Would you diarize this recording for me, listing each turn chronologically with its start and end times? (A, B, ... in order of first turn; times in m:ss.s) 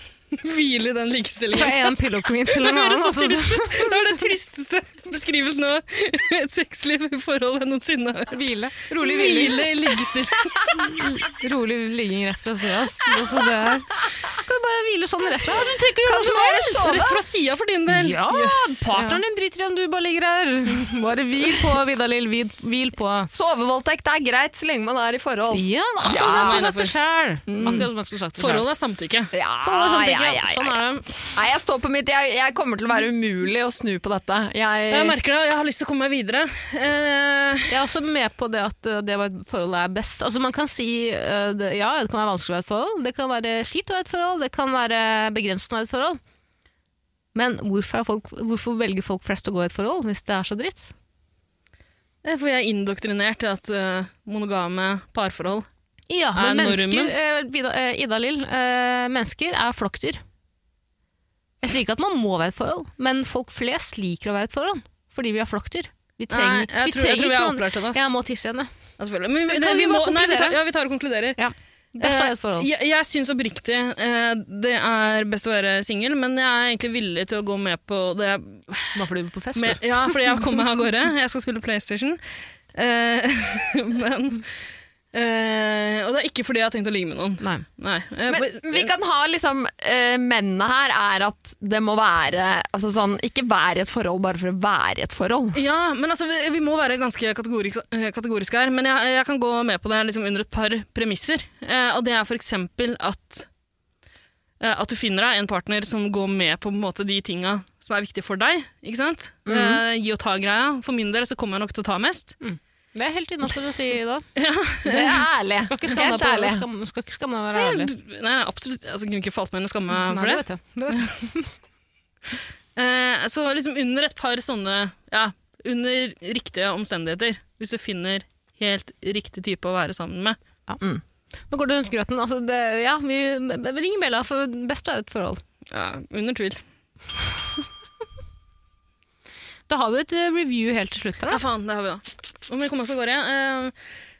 0:00.3-0:08.4 A
0:01.5-0:04.1 B
0:08.3-0:09.6 B
0:09.0-0:11.0 A
0:10.8-0:17.0 B
0:16.0-0:17.2 C
0:16.8-0:19.2 A
0:17.9-0:23.3 B
0:23.3-0:26.6 C
0:25.5-0:28.6 B
0:26.1-0:26.9 A
0:27.5-0:27.9 C
0:28.4-0:29.3 A
0:29.3-0:35.2 C
0:29.6-0:31.1 B
0:34.9-0:37.8 A
0:37.7-0:46.2 B
0:47.3-0:50.9 B
0:52.2-0:55.6 A
0:56.1-1:00.2 B
0:56.3-0:57.1 A
1:01.6-1:08.7 B
1:06.3-1:08.0 A
1:09.0-1:11.4 A
1:09.4-1:10.6 B
1:11.4-1:12.7 B
1:12.0-1:22.2 A
1:18.9-1:20.4 B
1:22.7-1:28.9 A
1:28.3-1:35.6 C
1:35.5-1:43.5 A
1:44.6-1:52.4 A
1:49.5-1:49.8 C
1:52.4-1:54.2 B
1:54.4-1:55.2 A
1:54.8-1:56.6 C
1:55.7-1:57.9 B
1:57.5-2:01.1 A
1:59.9-2:01.5 B
2:02.8-2:10.4 A
2:11.5-2:15.4 B
2:15.7-2:16.6 A
2:19.7-2:21.4 B
2:21.3-2:23.8 A